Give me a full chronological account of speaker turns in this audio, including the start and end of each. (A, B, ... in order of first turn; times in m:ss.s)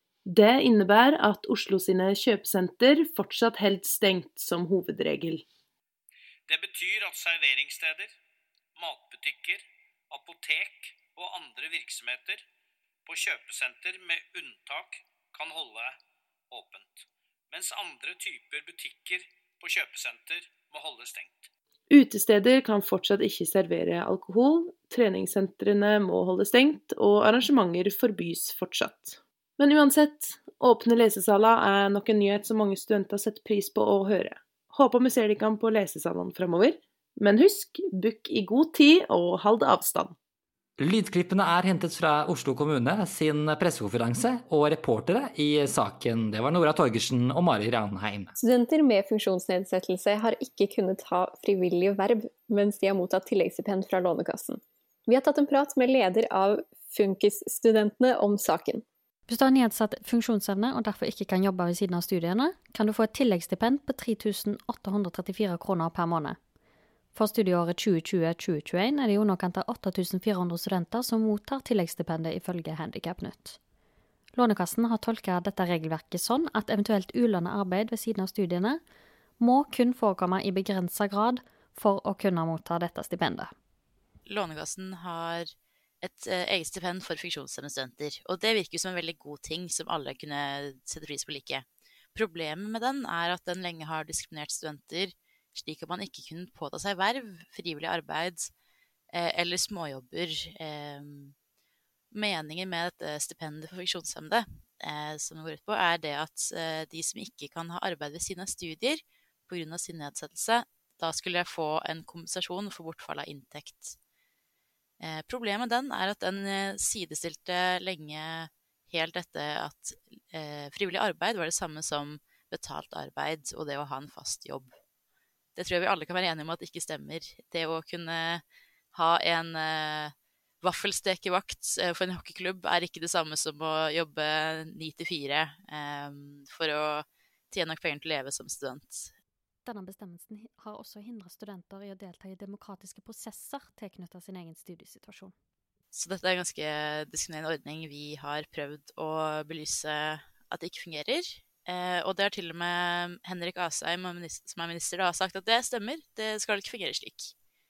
0:00.2-0:05.4 A
0:06.5-0:08.1 B
0:08.8-0:12.4 B
0:13.0-0:16.0 B
0:16.5-0:21.5 B
0:21.9-0:40.1 A
0:40.8-0:48.3 C
0:48.4-0:58.8 D
0:59.3-1:06.4 E
1:07.1-1:13.6 E
1:14.3-1:18.8 E
1:19.4-1:23.5 E
1:24.2-1:38.5 F
1:39.1-1:41.3 F
1:42.1-1:54.0 F
1:55.0-2:04.7 F
2:05.5-2:19.1 F
2:19.6-2:25.3 E
2:25.9-2:37.3 F